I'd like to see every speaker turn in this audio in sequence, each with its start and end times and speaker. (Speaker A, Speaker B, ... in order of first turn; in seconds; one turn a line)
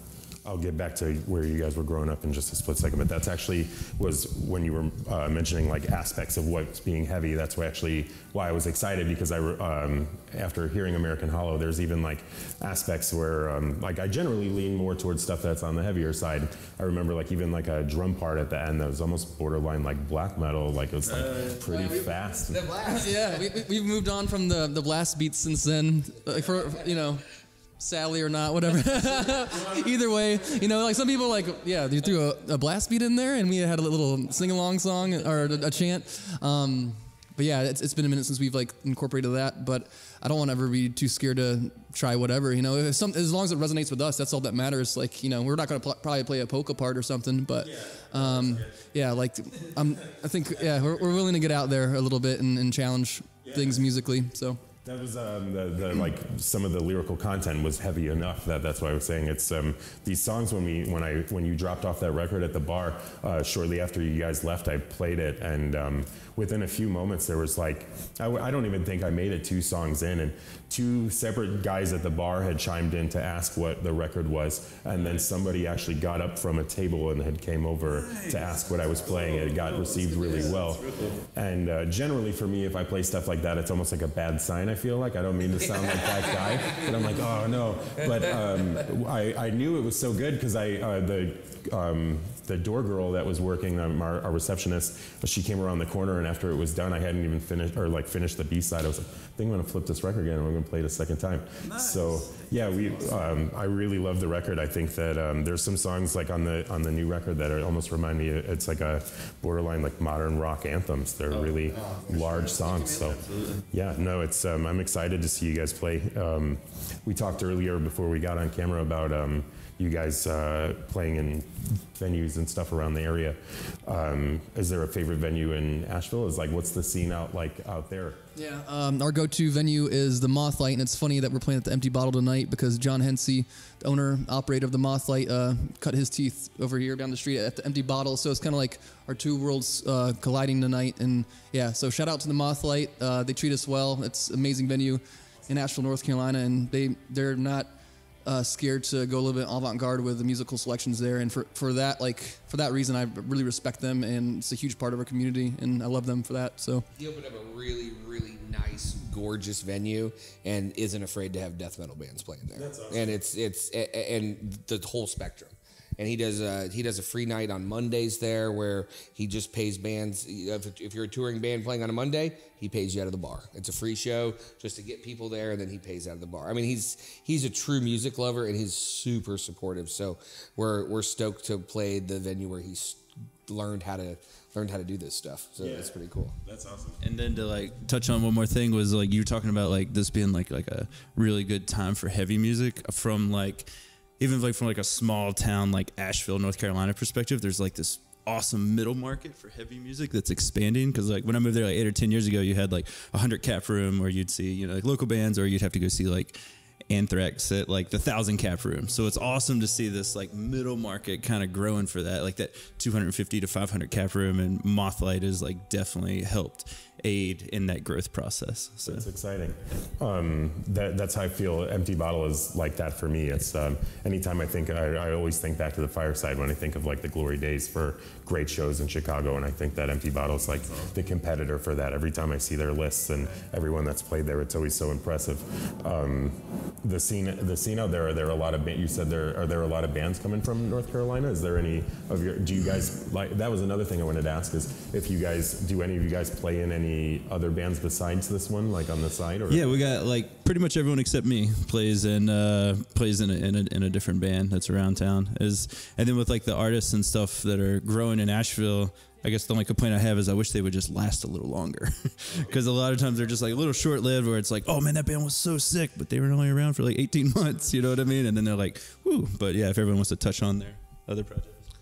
Speaker A: 0.4-22.7
Speaker B: 21.3-21.5
Speaker C: 21.7-21.9
Speaker C: 22.5-23.4
Speaker D: 22.9-27.2
Speaker D: 27.8-54.6
Speaker A: 48.1-48.5
Speaker A: 54.8-128.2
Speaker B: 78.0-81.2
Speaker B: 101.7-103.1
Speaker B: 111.7-113.6
Speaker D: 128.3-147.7
Speaker D: 148.2-156.9
Speaker C: 156.9-186.3
Speaker A: 162.5-163.2
Speaker A: 185.6-187.0
Speaker B: 187.0-206.4
Speaker B: 206.9-219.0
Speaker A: 218.8-249.8
Speaker B: 249.5-271.6